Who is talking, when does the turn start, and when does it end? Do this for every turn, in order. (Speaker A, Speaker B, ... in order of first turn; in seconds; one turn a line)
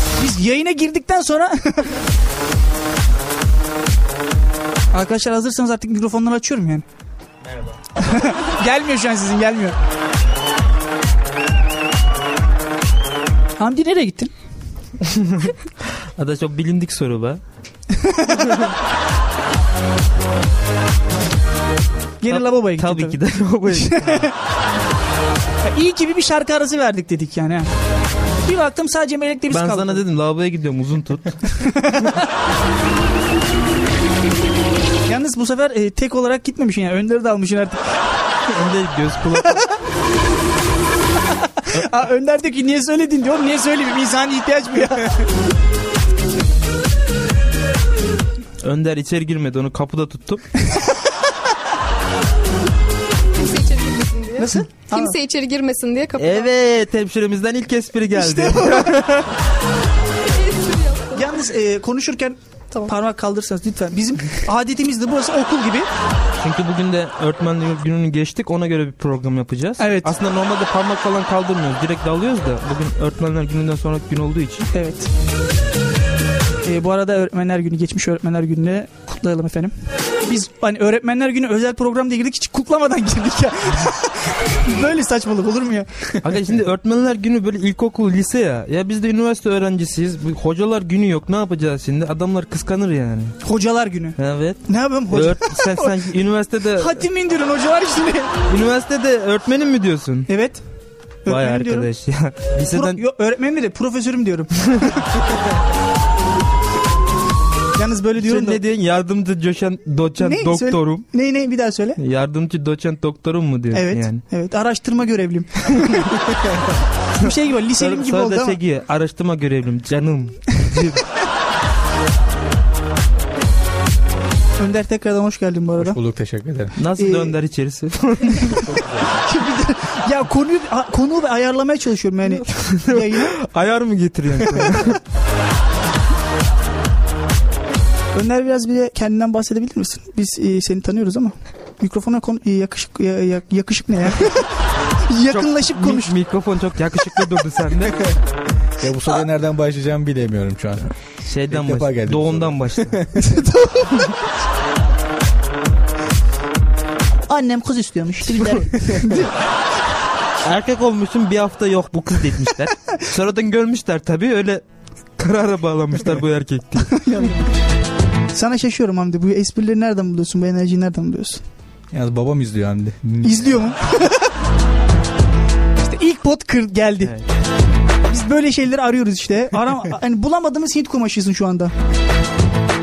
Speaker A: 0.2-1.9
Speaker A: 4.9-6.8
Speaker A: 8.0-9.8
Speaker A: 13.6-14.3
Speaker B: 15.1-15.5
Speaker B: 16.2-17.4
Speaker A: 17.9-18.6
Speaker A: 22.2-23.2
Speaker B: 22.3-24.3
Speaker A: 23.7-24.3
Speaker A: 25.6-27.7
Speaker A: 28.5-30.0
Speaker B: 29.5-31.5
Speaker A: 31.5-32.2
Speaker A: 35.1-37.8
Speaker B: 38.5-39.6
Speaker A: 41.6-45.2
Speaker B: 48.6-50.5
Speaker C: 53.4-56.5
Speaker A: 54.4-55.1
Speaker B: 56.2-59.2
Speaker A: 58.1-59.1
Speaker C: 60.3-61.3
Speaker A: 61.1-65.9
Speaker B: 66.4-74.7
Speaker A: 69.8-70.1
Speaker A: 74.7-75.1
Speaker A: 76.7-79.7
Speaker A: 80.3-86.0
Speaker B: 86.2-93.4
Speaker A: 93.4-94.2
Speaker B: 94.2-97.0
Speaker A: 94.7-96.0
Speaker A: 96.8-98.3
Speaker B: 98.5-100.3
Speaker A: 100.3-100.6
Speaker A: 101.3-101.9
Speaker B: 101.3-103.0
Speaker A: 102.7-105.0
Speaker A: 107.8-108.6
Speaker B: 108.2-111.0
Speaker A: 110.2-112.0
Speaker B: 112.0-114.2
Speaker A: 113.7-116.2
Speaker A: 117.2-118.6
Speaker B: 117.2-121.1
Speaker A: 124.6-126.0
Speaker D: 125.8-126.7
Speaker B: 126.8-128.6
Speaker A: 127.0-127.3
Speaker D: 128.6-129.2
Speaker A: 129.2-133.3
Speaker B: 132.5-135.0
Speaker A: 134.5-135.0
Speaker A: 138.1-144.5
Speaker A: 145.1-146.1
Speaker B: 145.3-148.0
Speaker D: 148.8-150.9
Speaker B: 151.2-153.1
Speaker D: 151.5-153.1
Speaker A: 153.2-154.1
Speaker A: 157.3-159.3
Speaker B: 160.4-164.6
Speaker B: 165.2-167.0
Speaker A: 166.9-167.4
Speaker A: 168.3-171.4
Speaker D: 171.9-173.6
Speaker A: 173.2-174.2
Speaker A: 175.8-177.1
Speaker A: 178.1-181.7